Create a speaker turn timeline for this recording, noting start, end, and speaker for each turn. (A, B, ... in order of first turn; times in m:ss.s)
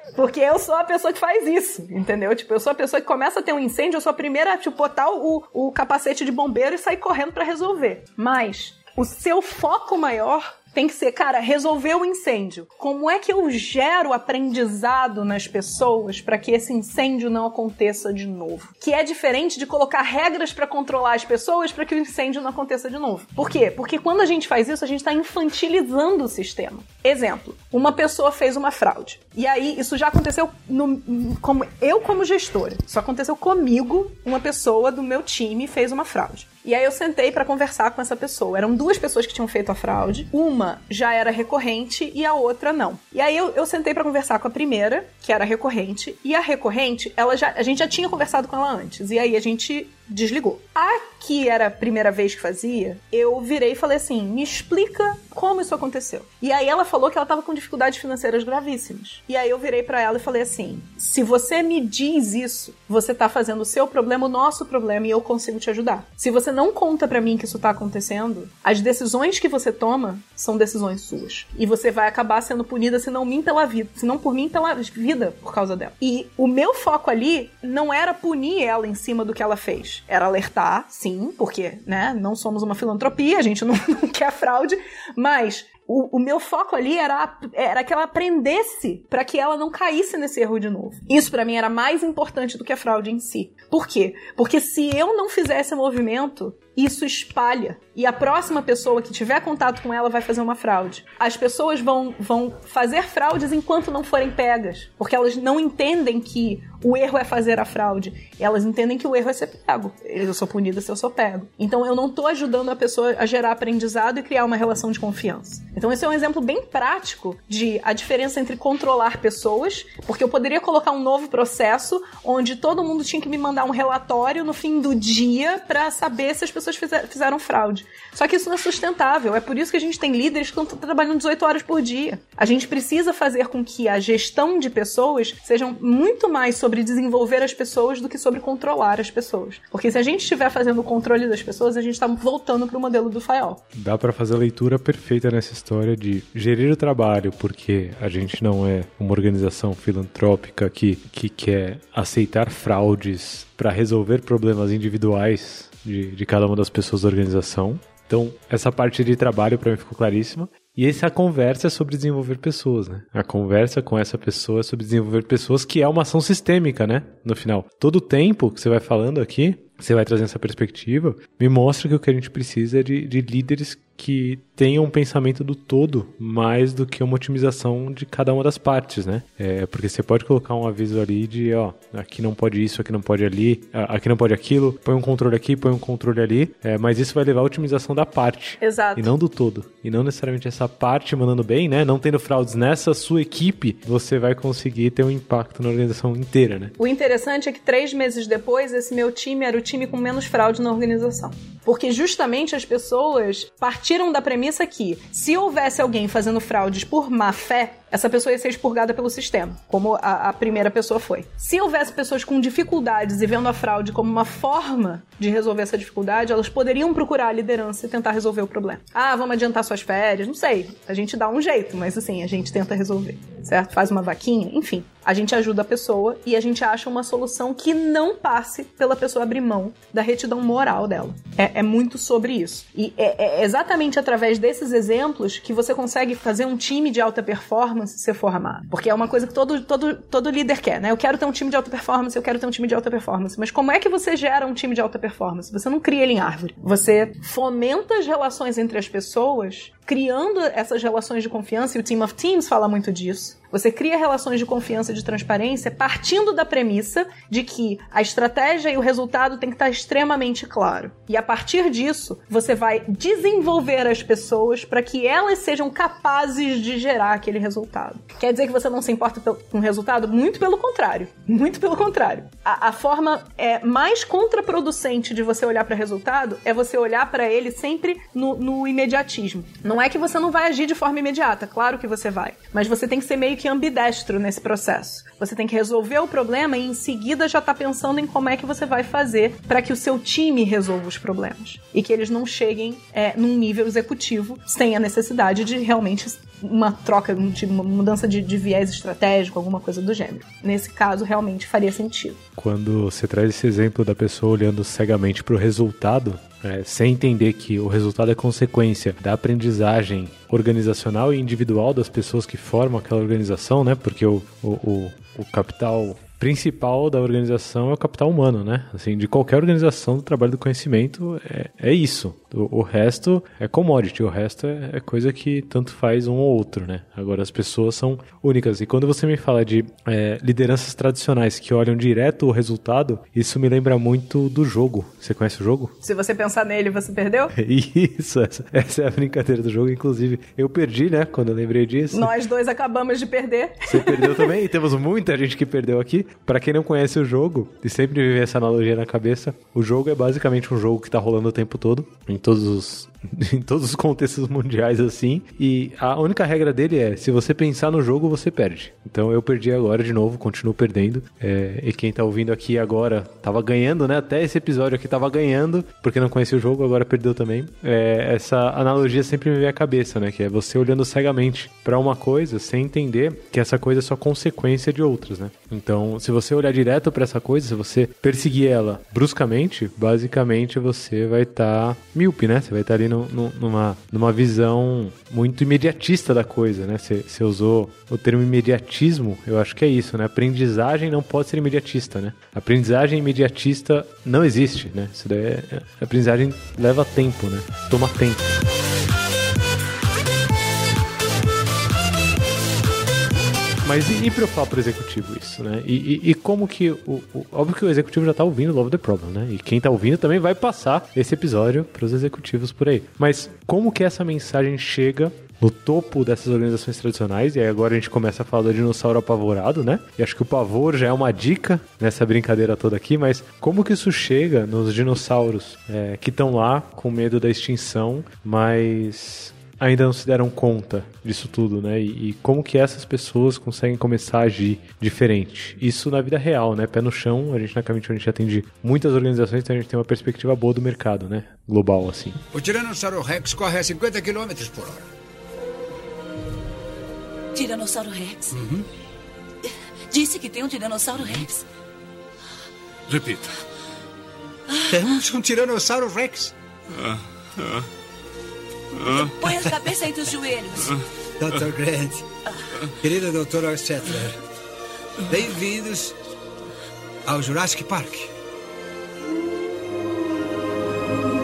0:00.2-2:23.6 A
2:23.7-3:16.8 B
3:08.6-3:09.1 A
3:16.8-5:02.2 A
5:02.4-5:35.7 B
5:35.8-5:37.3 A
5:37.3-5:42.1 B
5:41.9-5:44.4 A
5:43.7-6:38.4 B
6:43.6-7:22.2 B
7:22.3-7:24.8 C
7:22.4-7:24.7 D
7:27.4-7:28.4 D
7:28.3-7:28.6 C
7:29.9-7:31.3 D
7:32.9-7:33.2 C
7:32.9-7:33.2 D
7:34.7-7:36.2 D
7:34.7-7:36.3 C
7:38.8-7:41.8 D
7:41.2-7:42.0 C
7:42.8-7:44.1 D
7:42.8-7:44.1 C
7:45.1-7:45.8 D
7:45.1-7:45.9 C
7:47.1-7:48.1 C
7:47.1-7:48.0 D